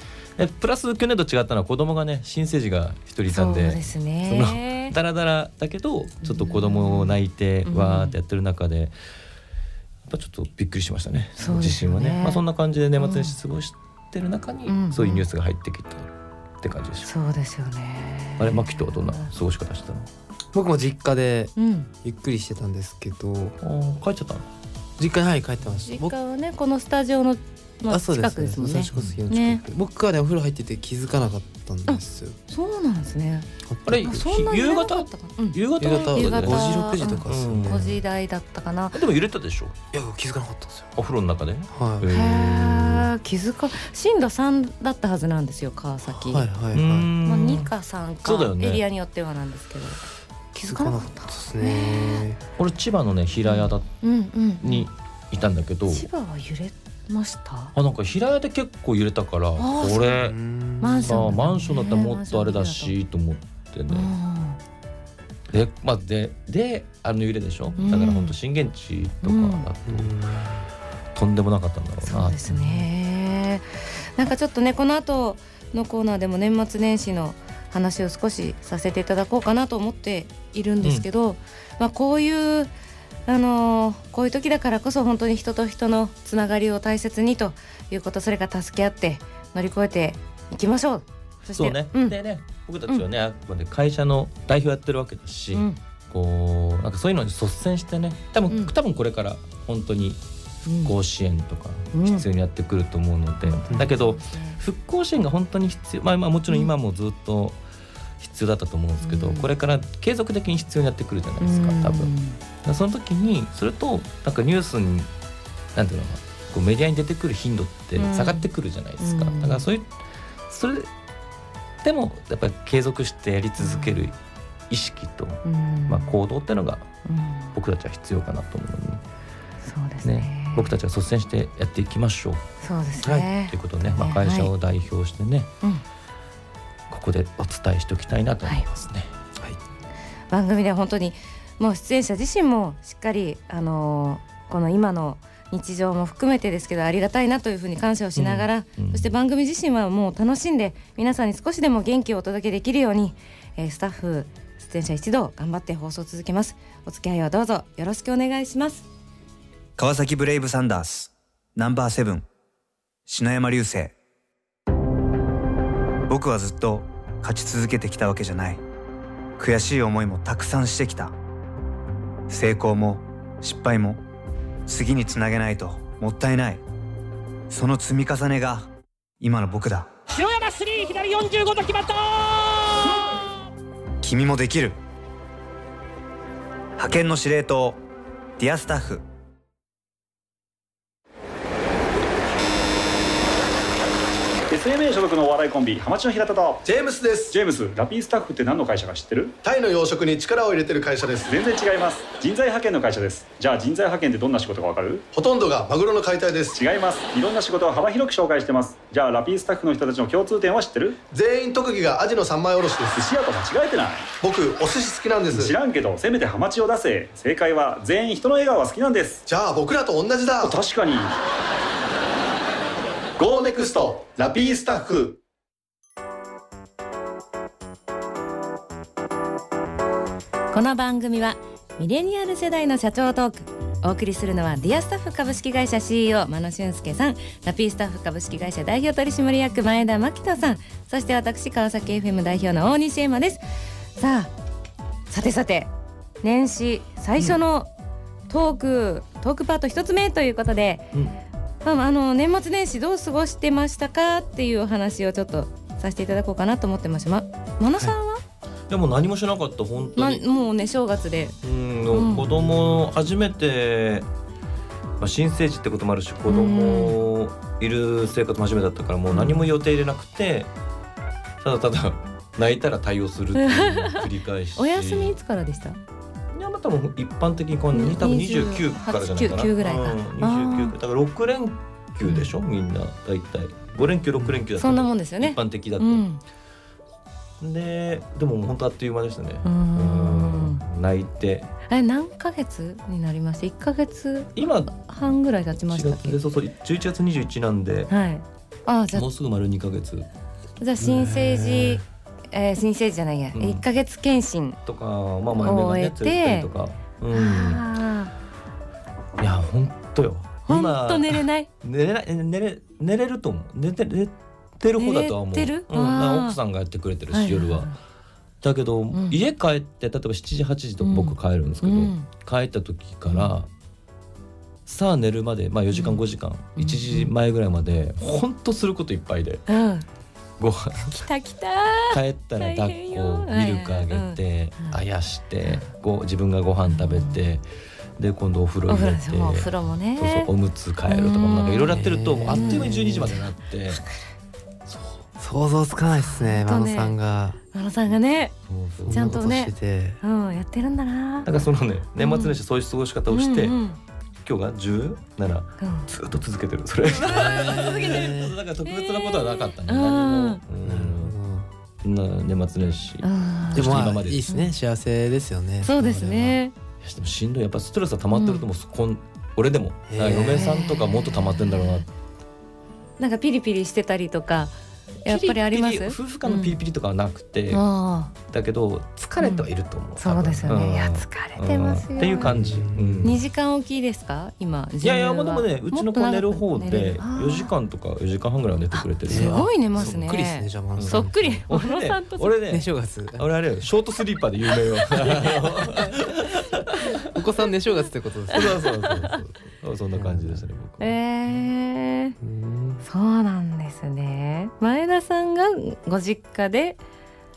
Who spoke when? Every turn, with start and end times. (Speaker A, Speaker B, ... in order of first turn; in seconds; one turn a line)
Speaker A: 0.4-8.9
Speaker B: 3.3-4.9
Speaker B: 6.2-8.1
Speaker A: 10.1-16.1
Speaker B: 11.4-12.4
Speaker B: 13.0-13.4
Speaker B: 14.7-15.2
Speaker A: 16.6-17.1
Speaker B: 17.0-19.3
Speaker A: 18.4-20.1
Speaker C: 20.5-23.6
Speaker B: 21.6-21.9
Speaker A: 23.6-24.5
Speaker C: 25.0-26.1
Speaker B: 25.8-29.6
Speaker C: 27.9-32.4
Speaker B: 31.9-39.0
Speaker C: 33.7-34.2
Speaker A: 33.9-38.0
Speaker C: 35.8-38.0
Speaker A: 38.9-39.7
Speaker C: 39.9-40.9
Speaker A: 41.0-43.1
Speaker C: 41.7-42.1
Speaker B: 42.0-46.5
Speaker C: 46.1-47.1
Speaker A: 46.7-47.7
Speaker B: 47.2-50.0
Speaker A: 48.2-48.8
Speaker C: 50.5-52.4
Speaker B: 50.6-52.2
Speaker A: 52.6-53.9
Speaker B: 53.4-54.9
Speaker A: 54.6-56.1
Speaker B: 55.9-57.7
Speaker A: 57.8-60.4
Speaker B: 59.6-60.2
Speaker C: 60.1-61.2
Speaker B: 60.8-63.0
Speaker A: 61.0-64.1
Speaker B: 63.9-64.6
Speaker A: 65.5-70.1
Speaker B: 67.8-68.3
Speaker B: 69.2-69.7
Speaker C: 69.9-70.7
Speaker A: 71.2-72.8
Speaker B: 72.0-82.7
Speaker B: 83.3-92.2
Speaker A: 91.5-100.2
Speaker B: 100.7-100.9
Speaker A: 100.8-107.6
Speaker B: 101.9-102.2
Speaker B: 103.5-104.6
Speaker A: 108.2-112.1
Speaker B: 109.0-109.5
Speaker B: 111.4-112.4
Speaker A: 112.6-115.1
Speaker A: 115.8-119.9
Speaker B: 118.0-118.5
Speaker B: 119.0-119.6
Speaker A: 120.5-120.9
Speaker A: 121.8-124.2
Speaker B: 123.6-124.0
Speaker A: 124.7-126.9
Speaker B: 125.5-126.1
Speaker B: 127.1-127.5
Speaker A: 127.5-129.0
Speaker B: 129.6-130.7
Speaker A: 130.0-132.4
Speaker B: 132.6-134.5
Speaker A: 133.3-135.5
Speaker A: 136.9-139.1
Speaker B: 140.3-158.9
Speaker A: 148.2-149.1
Speaker D: 159.8-162.3
Speaker D: 163.1-164.0
Speaker D: 166.1-168.6
Speaker D: 169.4-171.1
Speaker D: 172.3-174.0
Speaker D: 174.7-176.6
Speaker D: 177.5-178.7
Speaker D: 179.2-179.9
Speaker E: 180.1-183.0
Speaker D: 184.0-184.8
Speaker D: 186.8-187.8
Speaker D: 188.4-189.1
Speaker F: 194.5-196.6
Speaker G: 196.7-197.4
Speaker F: 197.3-199.4
Speaker G: 199.4-201.3
Speaker F: 201.3-205.1
Speaker G: 205.1-206.6
Speaker F: 206.6-211.0
Speaker G: 211.1-213.1
Speaker F: 213.0-214.1
Speaker G: 214.2-215.6
Speaker F: 215.3-219.2
Speaker G: 219.3-220.6
Speaker F: 220.4-221.2
Speaker G: 223.2-225.2
Speaker B: 230.5-243.4
Speaker B: 244.0-244.3
Speaker B: 245.1-245.7
Speaker B: 246.2-247.7
Speaker B: 248.3-250.9
Speaker B: 251.6-258.2
Speaker A: 258.7-260.2
Speaker B: 260.0-261.4
Speaker A: 261.4-264.1
Speaker B: 261.9-262.3
Speaker C: 262.2-262.9
Speaker A: 265.0-270.5
Speaker B: 266.3-266.9
Speaker B: 269.1-269.5
Speaker A: 271.4-275.2
Speaker B: 273.4-275.8
Speaker A: 276.3-286.1
Speaker B: 277.7-280.8
Speaker B: 282.1-282.3
Speaker B: 284.5-286.2
Speaker A: 287.4-291.5
Speaker B: 289.4-290.6
Speaker B: 291.7-296.2
Speaker A: 294.4-294.8
Speaker A: 295.6-297.9
Speaker B: 297.9-299.1
Speaker A: 298.9-300.1
Speaker B: 300.6-304.6
Speaker C: 300.9-301.6
Speaker A: 300.9-301.8
Speaker A: 303.4-303.6
Speaker A: 304.7-307.6
Speaker B: 305.4-306.5
Speaker B: 307.1-308.1
Speaker A: 309.2-317.7
Speaker B: 310.5-311.5
Speaker B: 314.8-316.4
Speaker B: 317.1-317.8
Speaker A: 318.4-323.5
Speaker B: 318.9-319.2
Speaker B: 320.8-322.1
Speaker A: 324.7-329.5
Speaker B: 325.7-326.0
Speaker B: 326.6-327.1
Speaker B: 329.5-329.9
Speaker A: 330.4-331.1
Speaker B: 330.8-334.8
Speaker A: 331.9-337.4
Speaker B: 336.7-337.2
Speaker A: 338.0-343.8
Speaker B: 338.7-340.3
Speaker B: 340.9-343.9
Speaker C: 341.7-343.2
Speaker A: 344.7-345.0
Speaker C: 345.2-347.4
Speaker B: 346.0-347.0
Speaker B: 347.5-348.4
Speaker A: 348.5-349.2
Speaker C: 348.8-350.0
Speaker B: 348.9-351.3
Speaker A: 351.2-353.6
Speaker B: 352.0-352.4
Speaker B: 353.1-353.8
Speaker A: 354.2-361.2
Speaker B: 355.6-355.9
Speaker C: 356.9-358.4
Speaker B: 357.6-357.9
Speaker B: 358.6-360.4
Speaker C: 360.6-361.5
Speaker A: 361.8-364.2
Speaker B: 363.0-363.7
Speaker C: 363.5-366.4
Speaker B: 365.6-366.5
Speaker A: 366.8-371.9
Speaker B: 368.1-368.4
Speaker C: 369.9-370.5
Speaker B: 370.4-371.8
Speaker B: 373.0-376.6
Speaker A: 375.1-377.6
Speaker B: 377.5-378.1
Speaker A: 378.3-383.2
Speaker B: 379.2-379.5
Speaker B: 380.0-382.4
Speaker C: 382.2-383.2
Speaker B: 383.0-387.5
Speaker A: 384.8-389.9
Speaker B: 388.7-392.3
Speaker C: 389.1-391.4
Speaker A: 390.8-397.1
Speaker C: 392.5-393.3
Speaker C: 395.7-395.9
Speaker C: 397.1-398.6
Speaker A: 398.3-401.0
Speaker B: 398.4-399.2
Speaker C: 399.9-400.4
Speaker B: 400.8-402.2
Speaker C: 402.2-402.9
Speaker B: 402.9-406.8